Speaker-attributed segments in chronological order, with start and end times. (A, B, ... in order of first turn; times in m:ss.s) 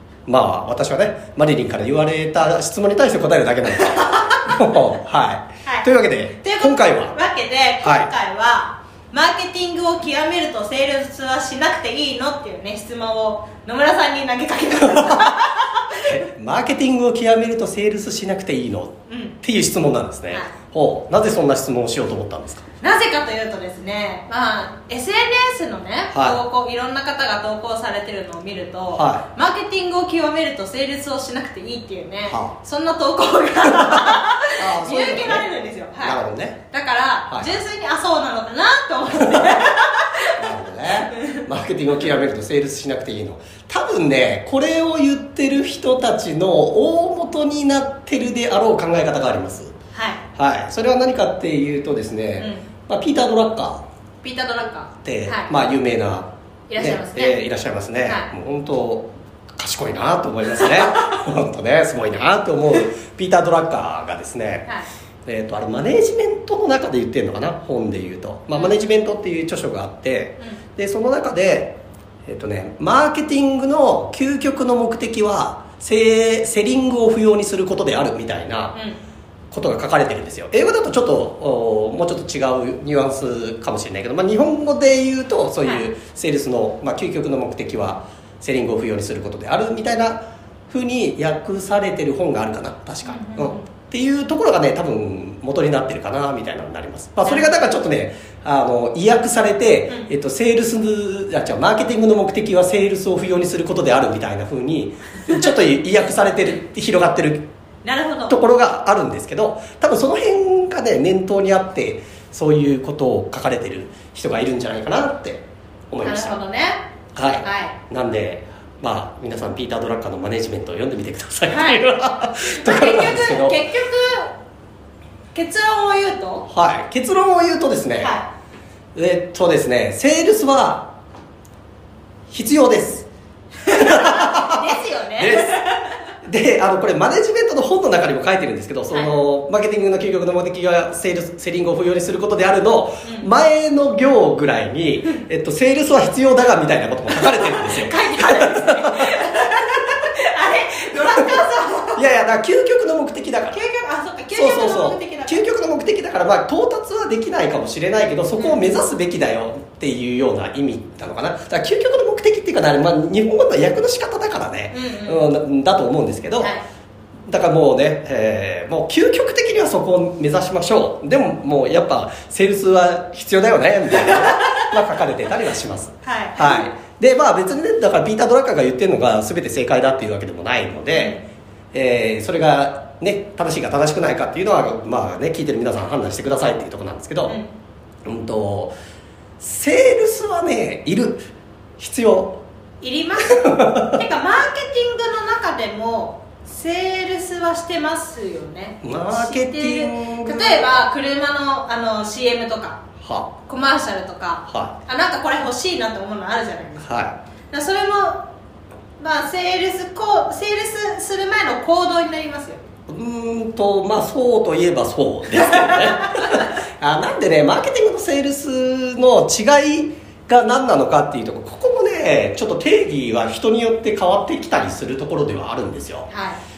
0:00.3-0:07.2 A
0:06.4-0:16.0 B
0:07.8-0:08.1 A
0:16.0-0:22.7 A
0:19.1-0:19.4 B
0:22.8-0:36.2 B
0:26.1-0:26.4 A
0:28.9-0:29.3 A
0:32.3-0:32.6 A
0:34.6-0:35.5 A
0:36.0-0:36.6 A
0:36.7-0:40.5 B
0:37.3-0:37.6 A
0:40.4-0:49.7 A
0:41.1-0:41.4 B
0:49.9-0:50.2 B
0:50.4-0:53.8 A
0:52.4-0:52.7 B
0:54.2-0:55.5 B
0:55.0-1:04.7 A
0:56.7-0:57.4 B
0:58.0-0:58.3 B
1:05.2-1:18.8 A
1:08.5-1:08.8 B
1:19.5-1:47.4 A
1:33.0-1:33.6 B
1:37.2-1:37.7 B
1:47.8-1:48.4 B
1:48.3-1:56.4 A
1:56.0-1:56.8 B
1:57.1-2:03.6 A
1:57.4-1:57.8 B
2:01.5-2:01.8 B
2:02.4-2:04.3 B
2:05.3-2:06.4 B
2:06.5-2:08.1 A
2:08.0-2:08.3 B
2:08.9-2:10.9 A
2:12.3-2:13.1 A
2:13.6-2:15.7 A
2:13.6-2:15.9 B
2:16.2-2:29.1 A
2:23.0-2:23.3 B
2:27.2-2:32.0 B
2:31.9-2:33.6 A
2:33.5-2:35.4 B
2:34.3-2:46.5 A
2:38.4-2:38.8 B
2:44.7-2:45.2 B
2:47.3-3:01.2 A
2:54.0-2:54.4 B
2:56.0-2:56.7 B
3:00.9-3:01.2 B
3:01.7-3:07.4 A
3:08.0-3:08.7 A
3:09.4-3:11.2 A
3:11.8-3:12.4 A
3:12.8-3:22.8 B
3:13.3-3:14.0 A
3:18.8-3:20.8 A
3:23.0-3:23.3 A
3:23.5-3:26.8 B
3:24.5-3:24.8 A
3:26.8-3:27.2 A
3:27.5-3:28.2 B
3:29.0-3:32.6 B
3:32.9-3:46.1 A
3:35.4-3:36.3 B
3:46.1-3:46.4 B